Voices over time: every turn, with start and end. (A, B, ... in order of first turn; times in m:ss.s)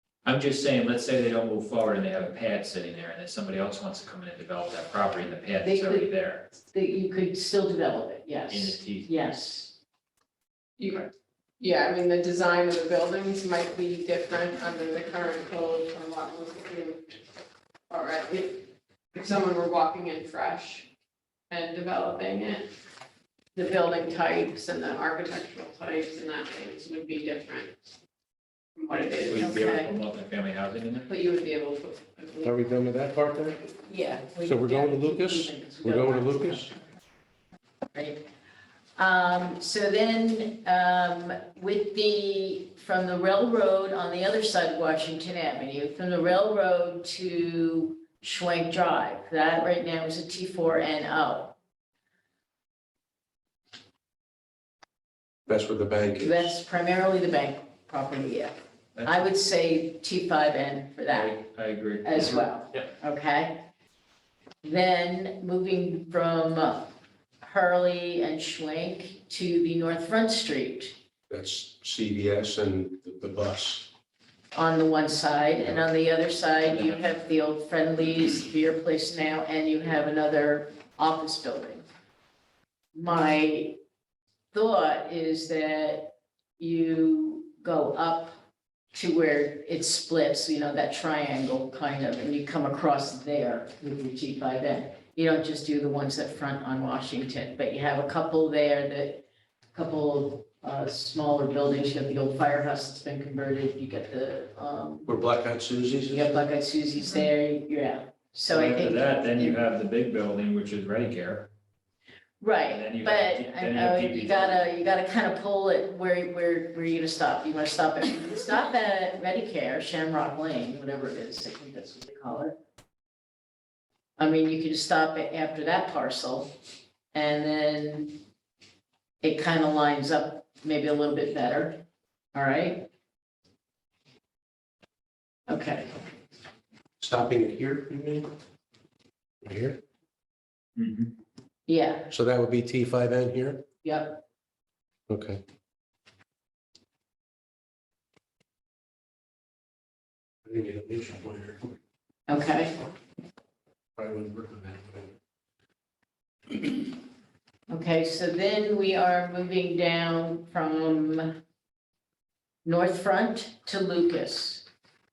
0:00.2-0:06.4 A
0:05.6-0:09.8 B
0:08.5-0:09.1 A
0:10.8-0:11.1 C
0:11.6-0:17.2 C
0:17.9-0:20.9 C
0:21.5-0:22.7 C
0:23.5-0:27.8 C
0:28.8-0:29.7 C
0:29.2-0:31.1 A
0:29.3-0:29.9 B
0:31.1-0:32.6 C
0:32.4-0:33.6 D
0:33.9-0:36.7 B
0:34.4-0:36.7 D
0:37.9-0:38.2 B
0:39.0-0:51.6 B
0:55.5-0:56.6 D
0:56.2-0:58.5 B
0:58.9-0:59.3 A
0:59.0-1:01.4 B
1:01.1-1:02.4 A
1:02.0-1:03.6 B
1:04.6-1:11.0 B
1:11.3-1:13.9 D
1:14.5-1:21.8 B
1:16.6-1:17.1 A
1:22.9-1:23.8 B
1:24.5-1:28.4 B
1:28.9-1:45.1 B
1:45.0-1:46.3 D
1:46.1-1:49.6 B
1:48.5-1:51.5 A
1:52.4-2:02.5 B
1:52.7-1:54.6 A
2:04.2-2:06.5 B
2:07.1-2:08.2 B
2:09.2-2:11.8 B
2:12.3-2:12.8 B
2:15.5-2:16.0 B
2:17.0-2:18.3 D
2:19.4-2:19.8 D
2:20.8-2:21.1 A
2:21.7-2:22.1 B
2:22.1-2:23.6 D
2:23.8-2:24.2 B
2:25.1-2:25.4 D
2:30.4-2:31.7 D
2:32.3-2:32.8 B
2:34.0-2:35.1 D
2:37.7-2:41.4 B
2:42.6-2:44.6 B